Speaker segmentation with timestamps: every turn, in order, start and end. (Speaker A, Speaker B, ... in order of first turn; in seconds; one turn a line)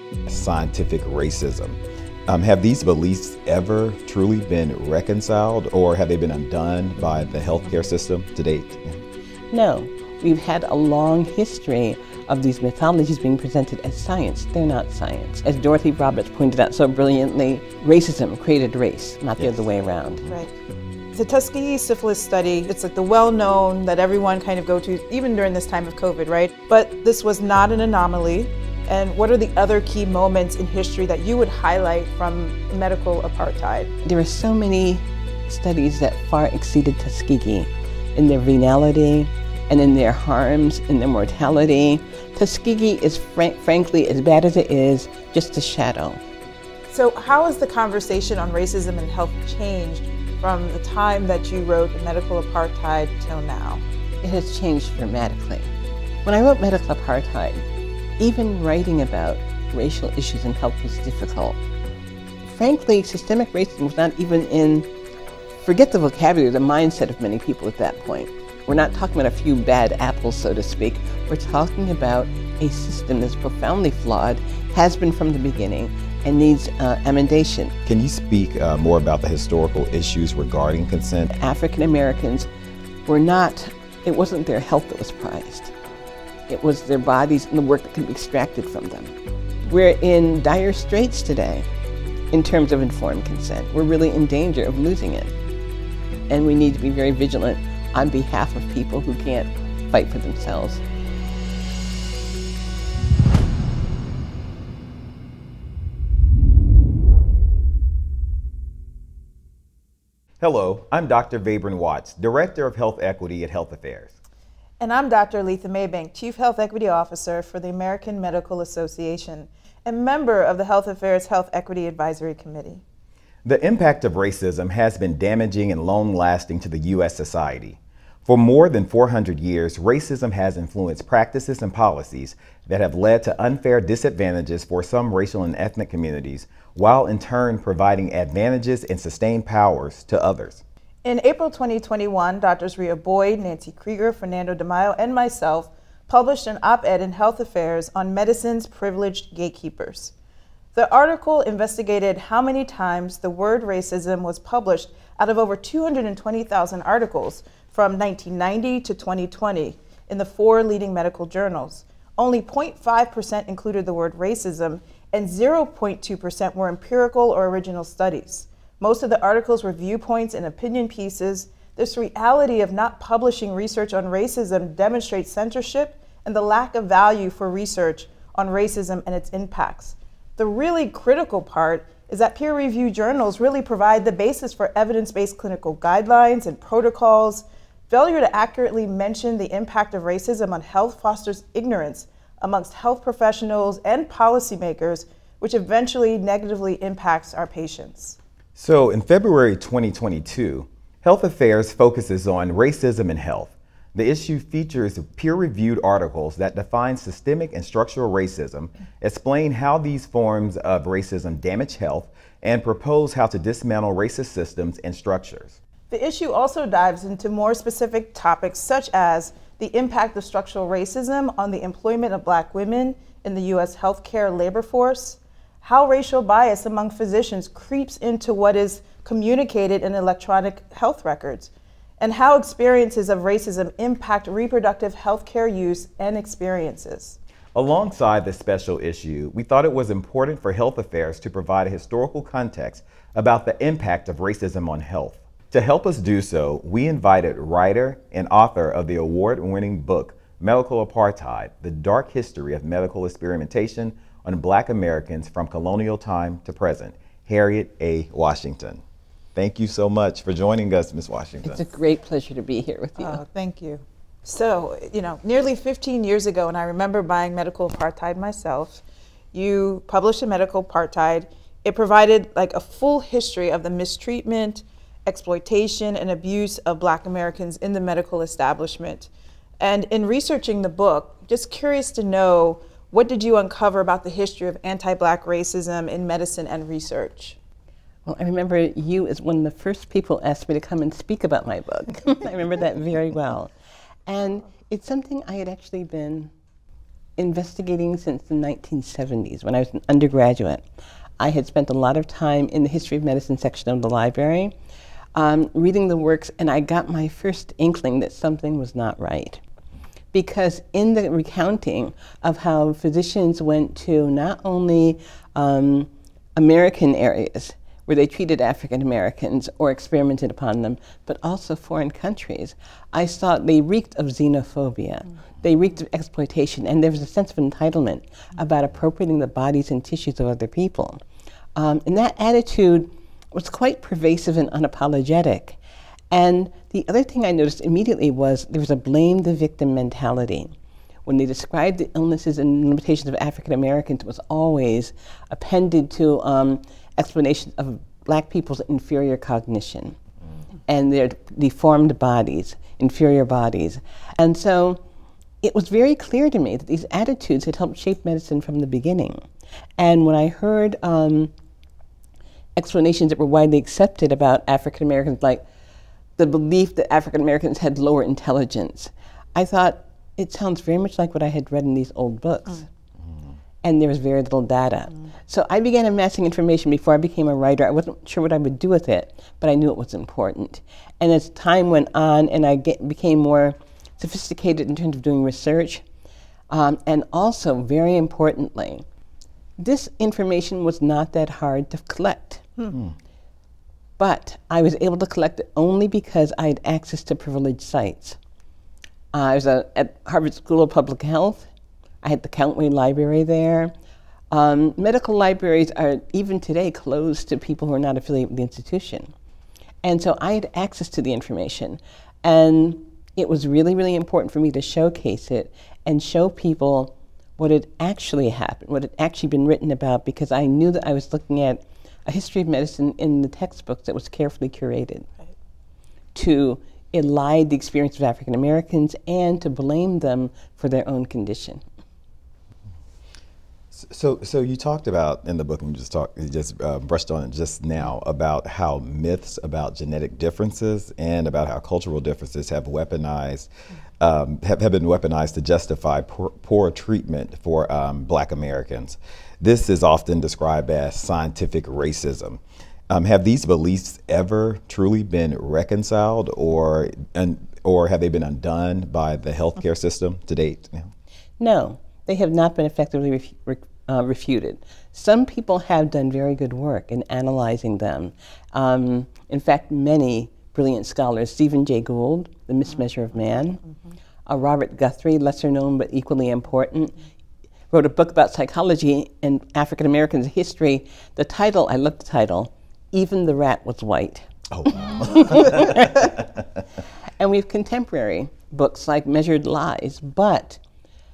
Speaker A: 0.3-9.0
Speaker B: 9.5-20.2
Speaker C: 21.1-33.9
Speaker B: 34.0-46.2
Speaker C: 46.9-53.8
Speaker B: 54.2-55.7
Speaker B: 56.2-57.7
Speaker B: 58.2-61.6
Speaker B: 62.4-64.9
Speaker B: 65.6-77.8
Speaker A: 77.9-81.3
Speaker B: 81.3-82.5
Speaker B: 83.1-85.7
Speaker B: 86.5-89.1
Speaker B: 89.7-91.7
Speaker B: 92.3-95.3
Speaker B: 96.3-100.8
Speaker A: 110.4-114.1
Speaker C: 114.8-122.8
Speaker A: 123.5-140.6
Speaker C: 141.1-150.1
Speaker C: 150.8-198.2
Speaker A: 198.6-215.6
Speaker C: 215.9-237.2
Speaker A: 237.5-258.8
Speaker A: 259.4-261.6
Speaker B: 261.4-263.2
Speaker C: 263.0-268.8
Speaker C: 269.3-287.4
Speaker B: 288.1-293.5
Speaker B: 294.1-296.3
Speaker B: 297.2-300.6
Speaker B: 301.2-304.6
Speaker B: 305.1-309.4
Speaker B: 310.1-331.0
Speaker B: 331.6-335.6
Speaker B: 336.1-340.5
Speaker B: 341.1-350.0
Speaker B: 350.7-354.8
Speaker B: 355.4-359.3
Speaker B: 359.8-361.3
Speaker B: 362.6-365.4
Speaker B: 366.2-372.7
Speaker B: 373.6-385.8
Speaker B: 386.5-388.9
Speaker B: 389.6-392.5
Speaker B: 394.0-398.2
Speaker B: 399.1-401.5
Speaker B: 402.0-403.7
Speaker B: 404.3-409.1
Speaker B: 409.8-425.1
Speaker B: 426.1-431.6
Speaker A: 433.7-443.5
Speaker A: 444.0-460.9
Speaker B: 461.4-473.6
Speaker B: 474.3-477.0
Speaker B: 477.7-484.3
Speaker A: 484.5-486.3
Speaker B: 485.2-486.1
Speaker B: 487.2-490.6